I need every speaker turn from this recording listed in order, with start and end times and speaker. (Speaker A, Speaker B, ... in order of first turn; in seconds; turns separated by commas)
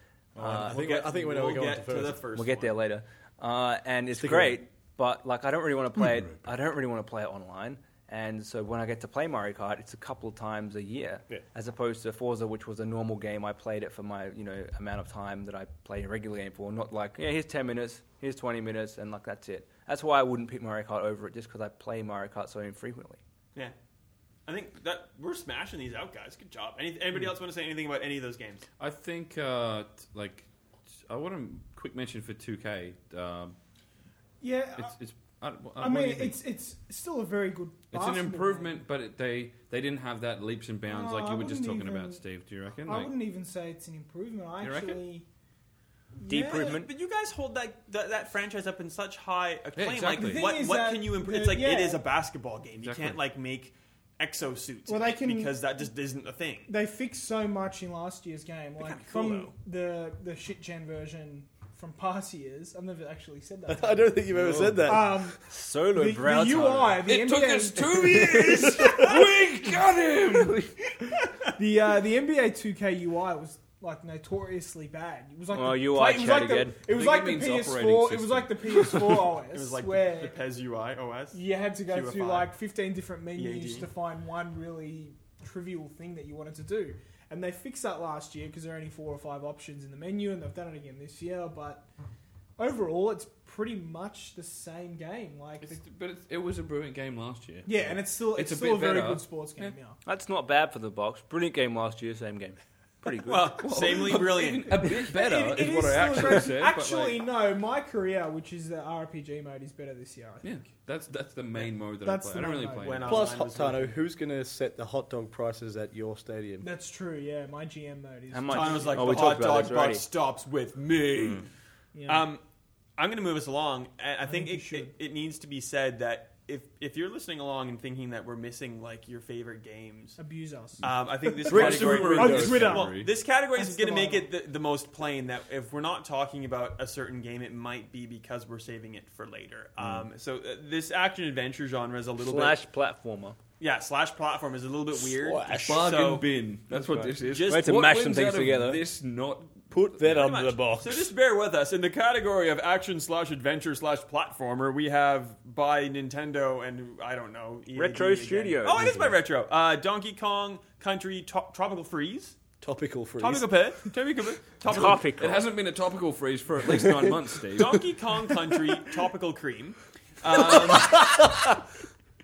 Speaker A: 0.4-2.2, Speaker B: 0.4-0.7, Speaker C: 0.5-2.7, Speaker B: 2.3-23.2, Speaker A: 4.2-4.6, Speaker C: 24.5-28.6, Speaker D: 28.8-30.5, Speaker D: 31.0-33.6, Speaker E: 34.4-34.9, Speaker D: 34.8-36.4, Speaker E: 35.8-38.8, Speaker D: 37.9-43.1, Speaker E: 40.9-42.2, Speaker E: 42.9-45.3, Speaker D: 44.6-45.0, Speaker E: 46.2-46.8, Speaker B: 46.3-46.9, Speaker C: 46.4-56.7, Speaker D: 49.8-50.5, Speaker E: 50.1-52.0, Speaker D: 52.8-53.2, Speaker E: 54.9-55.6, Speaker E: 56.7-64.2, Speaker C: 58.8-59.5, Speaker A: 63.7-65.3, Speaker B: 64.4-65.0, Speaker E: 64.8-69.2, Speaker B: 65.5-67.1, Speaker D: 67.0-70.8, Speaker B: 68.3-68.8, Speaker E: 71.0-80.3, Speaker B: 75.5-76.8, Speaker D: 76.9-79.2, Speaker C: 79.5-82.5, Speaker E: 81.3-91.9, Speaker C: 83.3-83.9, Speaker E: 92.6-95.8, Speaker D: 95.6-99.8, Speaker E: 97.7-100.0, Speaker B: 100.0-103.6, Speaker C: 103.2-105.0, Speaker D: 103.6-107.2, Speaker E: 104.9-110.5, Speaker D: 110.4-113.3, Speaker E: 112.0-113.2, Speaker C: 112.8-114.0, Speaker A: 113.1-116.7, Speaker E: 116.6-119.5, Speaker B: 118.3-120.0, Speaker C: 118.5-121.5, Speaker E: 121.9-122.3, Speaker C: 122.1-122.4, Speaker C: 123.0-130.2, Speaker E: 124.3-124.9, Speaker E: 130.2-134.3, Speaker C: 130.8-142.6, Speaker D: 131.4-133.1, Speaker A: 131.5-132.6, Speaker B: 142.2-143.4, Speaker C: 143.6-146.3, Speaker A: 145.0-145.9, Speaker D: 145.5-150.3, Speaker C: 147.2-147.9, Speaker B: 147.5-148.8, Speaker A: 149.7-151.1, Speaker C: 150.1-162.4, Speaker B: 157.8-159.2, Speaker A: 162.6-163.6, Speaker C: 163.2-165.1, Speaker B: 164.7-165.4, Speaker D: 165.1-167.8, Speaker C: 167.5-171.1, Speaker A: 170.3-171.6